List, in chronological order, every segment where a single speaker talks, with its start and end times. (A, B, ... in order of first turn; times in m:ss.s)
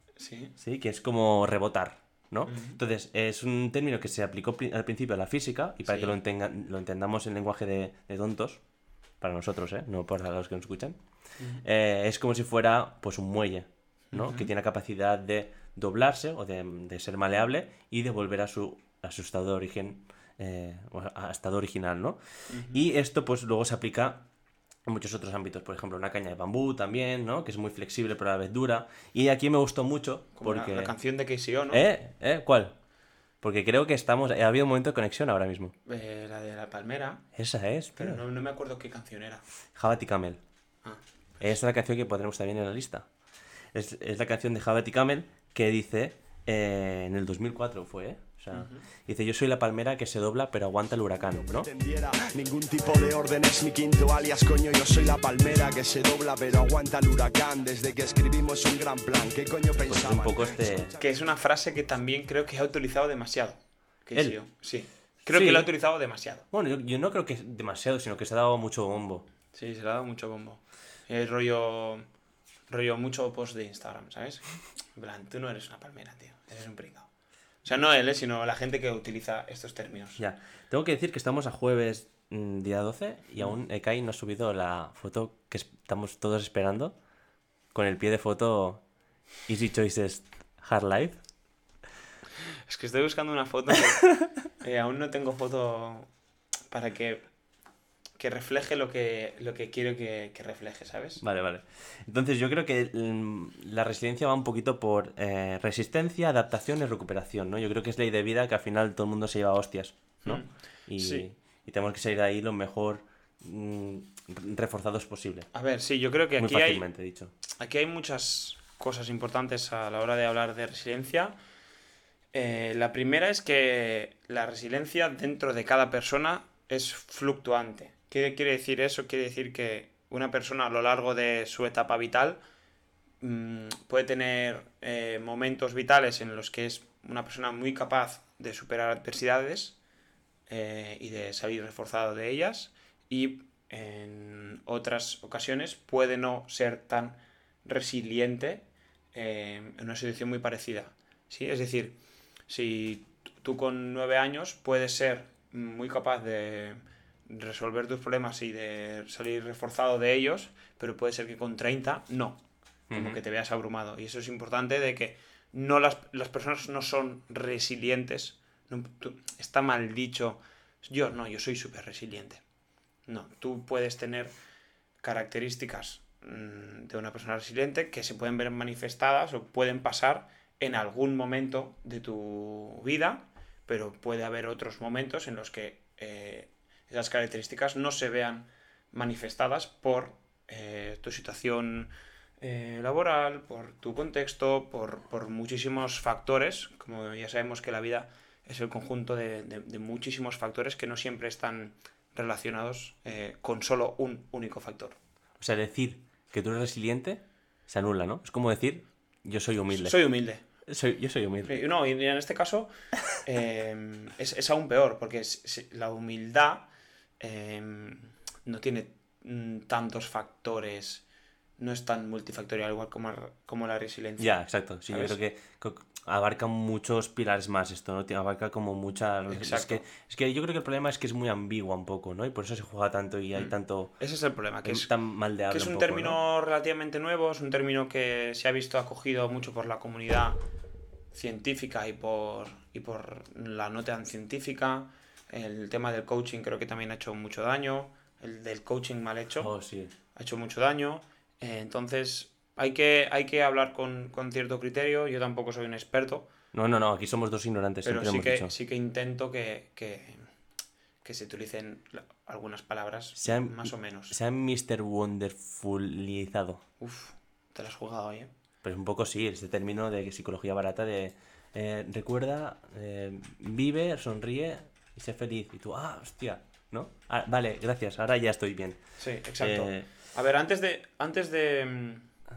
0:00.2-0:00.5 A
0:00.6-0:08.6 B
0:02.5-0:02.8 A
0:05.8-0:06.1 A
0:09.2-0:11.0 B
0:11.4-0:11.6 A
0:11.6-0:24.3 B
0:14.1-0:14.5 A
0:22.5-0:22.8 A
0:24.8-0:30.9 B
0:30.3-0:31.8 A
0:31.7-0:32.7 B
0:33.4-0:35.7 B
0:35.8-0:37.2 A
0:37.3-0:38.2 B
0:38.0-0:39.4 A
0:39.7-0:40.4 B
0:40.8-0:41.6 A
0:41.4-0:43.1 B
0:43.7-0:51.7 B
0:48.5-0:48.8 A
0:51.4-1:01.0 C
0:59.8-1:00.9 B
1:01.0-1:06.4 A
1:05.3-1:05.7 B
1:06.5-1:09.3 B
1:09.5-1:12.0 A
1:12.7-1:17.1 A
1:17.6-1:20.2 A
1:20.2-1:27.0 B
1:27.7-1:28.8 B
1:29.4-1:31.2 B
1:32.7-1:36.1 A
1:36.7-1:37.3 A
1:38.2-1:41.2 A
1:41.2-1:55.5 B
1:50.2-1:51.3 A
1:55.5-1:56.8 A
1:56.4-1:57.3 B
1:57.5-2:01.4 A
2:02.3-2:12.4 A
2:13.2-2:19.8 A
2:20.5-2:32.0 A
2:32.5-2:42.4 A
2:42.9-2:43.2 B
2:42.9-2:52.4 A
2:53.0-2:54.3 A
2:55.0-3:25.0 A
3:25.4-3:30.0 B
3:29.7-3:30.4 A
3:30.6-3:31.6 B
3:31.4-3:36.7 A
3:37.2-3:41.0 A
3:41.6-3:45.2 A
3:44.2-3:54.0 B
3:49.3-3:49.8 A
3:53.3-3:54.9 A
3:54.6-3:56.2 B
3:55.5-4:00.4 A
4:01.1-4:09.5 A
4:09.4-4:09.9 B
4:10.1-4:16.3 A
4:16.5-4:18.5 B
4:17.8-4:20.3 A
4:21.0-4:24.2 A
4:23.2-4:26.6 B
4:26.8-4:28.3 A
4:28.6-4:38.8 B
4:39.0-4:42.1 A
4:39.4-4:39.9 B